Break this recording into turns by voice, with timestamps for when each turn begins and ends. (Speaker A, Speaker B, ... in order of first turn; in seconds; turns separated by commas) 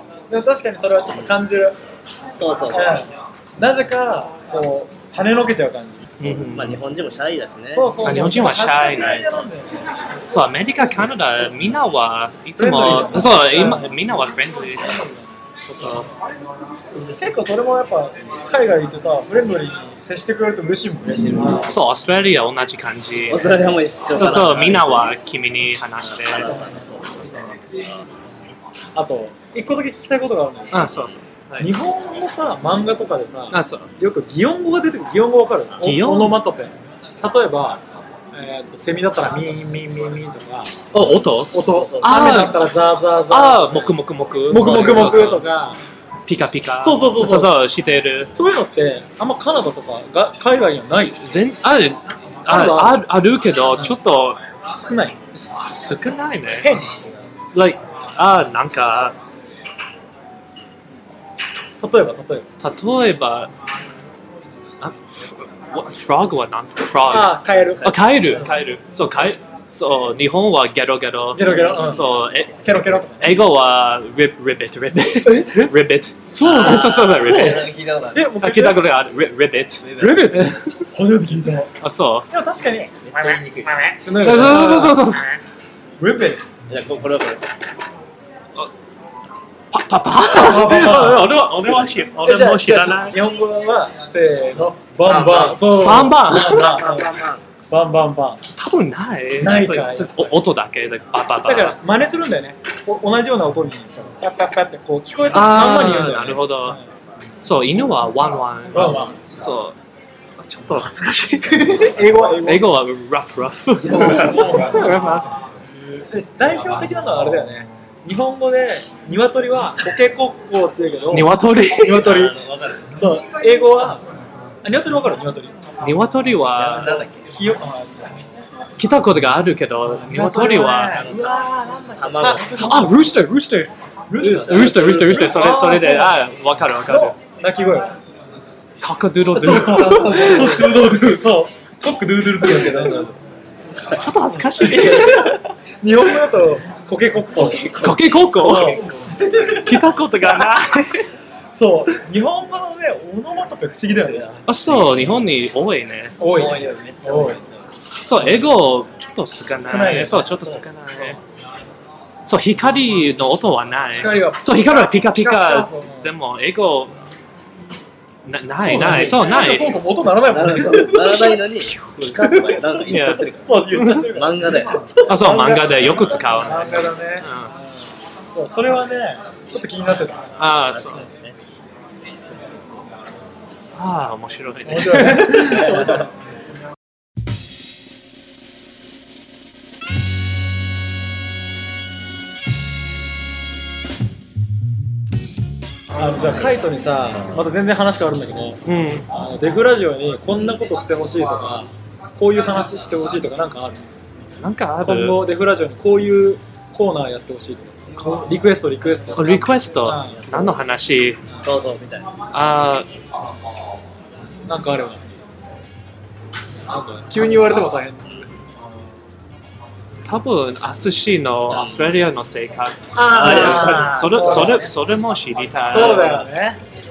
Speaker A: 0.3-1.8, Speaker B: 2.4-3.1, Speaker A: 2.7-6.2, Speaker C: 6.2-6.8, Speaker B: 6.3-9.5, Speaker A: 7.7-10.1, Speaker C: 8.0-9.3, Speaker C: 10.3-15.0, Speaker A: 12.6-14.1, Speaker A: 14.8-15.3, Speaker C: 15.6-16.1, Speaker A: 17.0-21.7, Speaker C: 21.7-26.7, Speaker B: 23.3-25.2, Speaker B: 26.0-28.1, Speaker A: 28.9-30.9, Speaker C: 30.7-31.7, Speaker A: 31.6-40.9, Speaker C: 33.5-33.9, Speaker C: 35.8-36.4, Speaker C: 40.9-42.6, Speaker A: 41.5-43.9, Speaker B: 41.6-42.4, Speaker C: 43.3-45.5, Speaker A: 44.5-45.8, Speaker C: 46.3-48.3, Speaker A: 46.8-47.5, Speaker A: 48.4-51.3, Speaker C: 51.2-54.4, Speaker A: 52.5-53.0, Speaker A: 54.7-55.2, Speaker C: 55.3-56.8, Speaker A: 56.6-57.1, Speaker C: 57.5-59.2, Speaker A: 61.8-62.5, Speaker C: 62.6-63.5, Speaker C: 64.8-72.5, Speaker A: 67.1-68.5, Speaker A: 71.3-72.1, Speaker B: 71.5-71.9, Speaker A: 72.6-73.4, Speaker C: 73.2-77.7, Speaker A: 75.2-75.7, Speaker A: 76.3-78.9, Speaker B: 76.4-78.3, Speaker C: 78.4-80.8, Speaker B: 79.8-80.3, Speaker A: 80.0-81.7, Speaker C: 81.8-82.3, Speaker A: 82.3-83.1, Speaker B: 83.1-83.7, Speaker C: 83.3-85.3, Speaker A: 84.1-85.2, Speaker A: 86.0-86.4, Speaker B: 86.7-87.5, Speaker C: 89.7-93.2, Speaker A: 90.2-97.2, Speaker B: 95.0-97.4, Speaker C: 95.6-96.8, Speaker A: 97.7-98.4, Speaker C: 98.6-101.8, Speaker A: 99.4-100.4, Speaker A: 101.4-106.9, Speaker C: 105.3-106.8, Speaker C: 107.4-109.8, Speaker A: 108.7-109.4, Speaker C: 110.4-115.3, Speaker A: 111.6-112.7, Speaker A: 113.9-115.2, Speaker B: 113.9-114.5, Speaker A: 115.7-124.0, Speaker C: 121.1-122.3, Speaker B: 121.9-123.0, Speaker A: 124.6-128.2, Speaker C: 125.8-127.0, Speaker B: 126.6-127.3, Speaker C: 128.8-131.1, Speaker A: 129.8-133.1, Speaker B: 130.9-132.8, Speaker C: 132.6-137.2, Speaker A: 134.1-136.2, Speaker B: 134.2-135.5, Speaker A: 136.9-138.0, Speaker C: 138.8-140.9, Speaker A: 139.3-143.1, Speaker B: 142.4-143.2, Speaker C: 143.8-145.4, Speaker A: 144.3-150.7, Speaker B: 147.3-149.2, Speaker C: 147.8-148.9, Speaker C: 149.4-151.1, Speaker A: 151.5-154.4, Speaker B: 154.0-155.3, Speaker C: 154.5-156.2, Speaker A: 156.2-157.4, Speaker B: 156.2-157.7, Speaker C: 158.0-161.2, Speaker A: 158.2-158.5, Speaker A: 159.6-160.3, Speaker B: 160.4-160.6, Speaker C: 162.3-166.9, Speaker A: 163.9-166.1, Speaker C: 168.3-169.8, Speaker A: 168.6-171.5, Speaker B: 170.2-175.0, Speaker C: 171.7-174.1, Speaker A: 172.2-180.3, Speaker C: 175.1-177.6, Speaker B: 176.2-176.9, Speaker C: 180.4-181.1, Speaker B: 180.7-181.4, Speaker C: 183.8-185.9, Speaker A: 184.7-186.1, Speaker B: 185.4-186.1, Speaker A: 195.9-203.8, Speaker C: 198.7-199.1, Speaker C: 204.4-205.2, Speaker A: 204.8-210.2, Speaker C: 208.0-208.2, Speaker C: 209.2-211.2, Speaker B: 210.1-210.6, Speaker B: 211.4-212.2, Speaker C: 212.3-212.9, Speaker A: 214.5-215.1, Speaker A: 216.7-218.3, Speaker C: 220.1-226.2, Speaker B: 221.5-221.9, Speaker A: 222.9-224.7, Speaker B: 223.1-224.7, Speaker A: 225.7-226.6, Speaker B: 225.7-226.2